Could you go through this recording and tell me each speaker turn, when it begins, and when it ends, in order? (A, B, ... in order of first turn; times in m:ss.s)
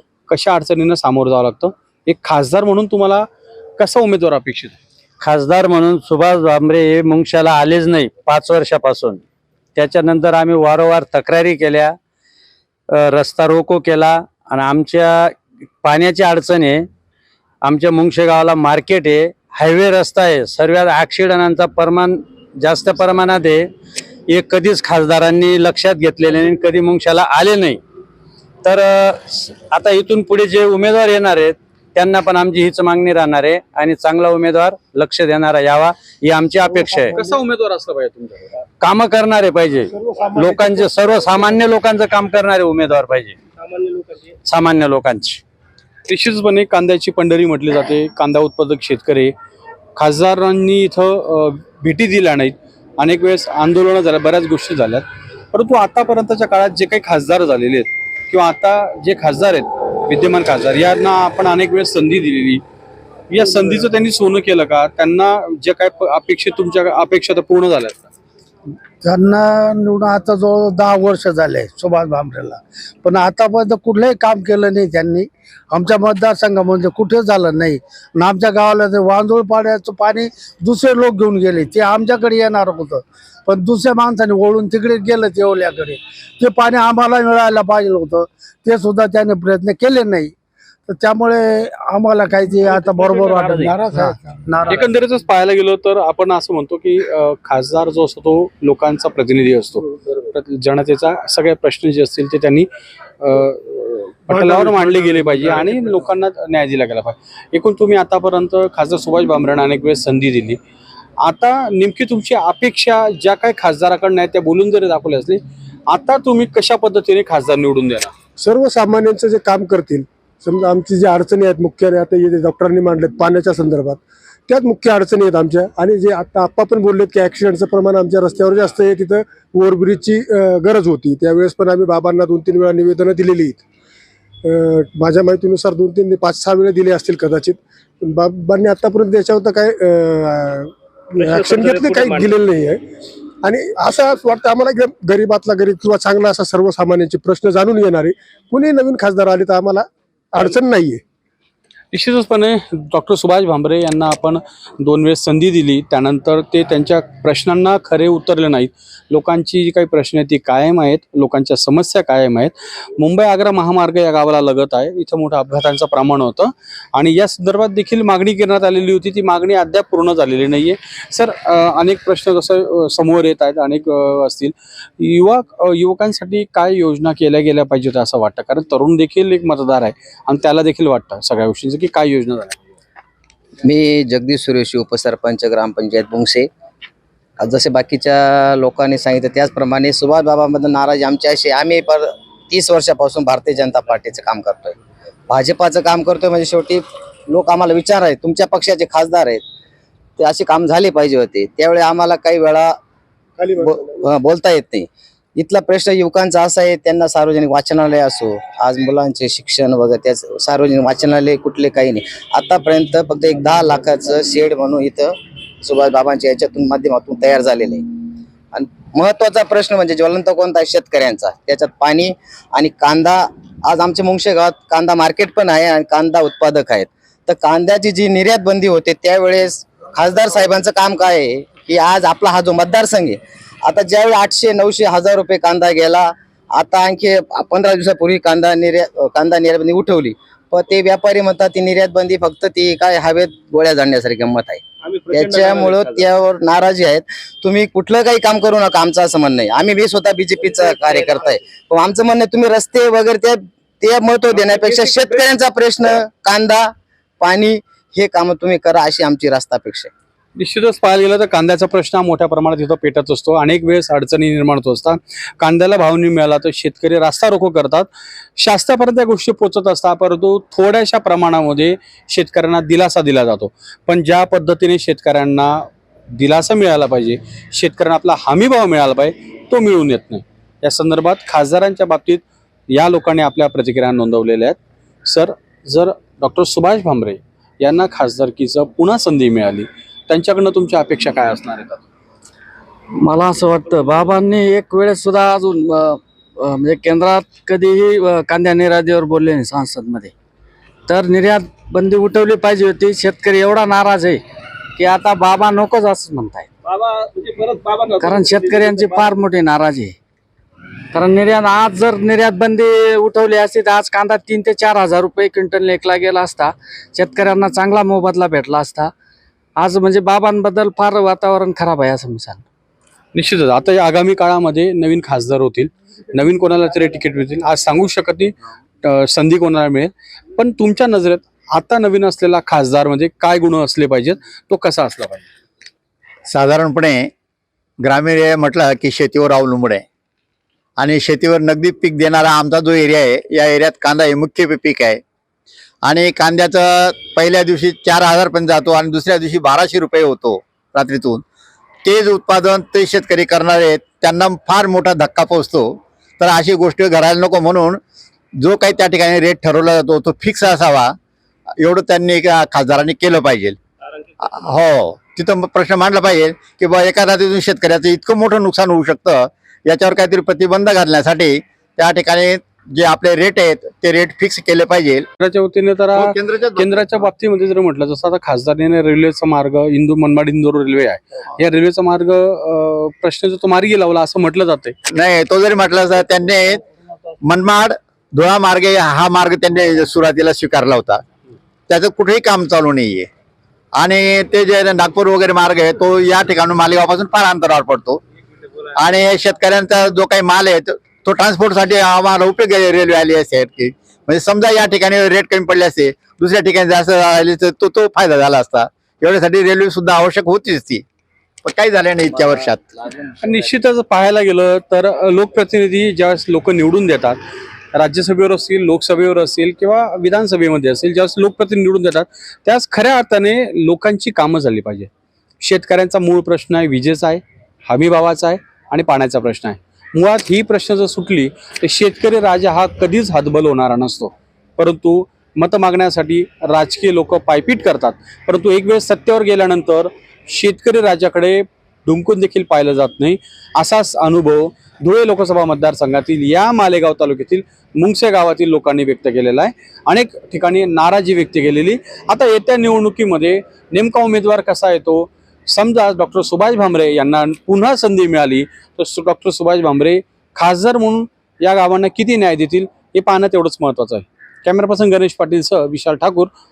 0:00.3-0:03.3 A
0:03.8-0:04.8 A
0:05.2-0:09.2 B
0:09.8-0:12.0 B
0:12.9-0:16.9 B
0:17.6-0:23.7 B
0:24.3-0:27.8 B
0:28.6-0:37.1 B
0:36.7-0:37.4 C
0:37.1-0:38.6 A
0:38.8-0:43.4 B
0:39.9-0:41.6 C
0:43.6-0:44.3 D
0:44.4-0:45.4 B
0:46.1-0:49.3 A
0:50.0-1:02.6 A
1:03.3-1:08.0 A
1:09.0-1:30.3 E
1:30.9-1:34.8 E
1:34.7-1:42.7 A
1:43.2-1:50.6 A
1:44.4-1:45.7 C
1:51.2-1:58.1 A
1:58.4-2:13.6 C
2:14.5-2:22.8 C
2:21.2-2:22.3 D
2:23.4-2:31.0 C
2:31.9-3:02.6 A
3:03.6-3:06.5 F
3:07.4-3:14.8 F
3:15.3-3:19.4 F
3:20.2-3:22.8 F
3:23.4-3:23.8 C
3:23.6-3:37.8 F
3:38.5-4:19.9 F
4:04.8-4:06.1 D
4:14.5-4:15.2 D
4:20.4-4:35.6 A
4:36.2-4:51.8 A
4:53.0-5:00.1 G
5:00.9-5:04.2 G
5:04.8-5:06.5 G
5:06.6-5:09.1 D
5:08.0-5:10.0 G
5:10.9-5:18.9 G
5:19.6-5:22.4 G
5:23.2-5:35.2 A
5:36.3-5:37.1 H
5:37.8-5:39.8 H
5:40.8-5:45.0 H
5:45.8-5:51.2 H
5:51.8-5:57.8 H
5:58.4-6:00.9 H
6:01.6-6:03.6 H
6:04.2-6:15.1 H
6:15.2-6:24.8 A
6:15.9-6:16.8 H
6:24.9-6:26.6 H
6:27.3-6:31.0 H
6:31.7-6:33.1 H
6:33.8-6:38.0 H
6:38.8-6:50.8 H
6:51.4-6:52.6 H
6:53.2-6:57.2 A
6:57.7-7:04.9 A
7:05.4-7:46.3 A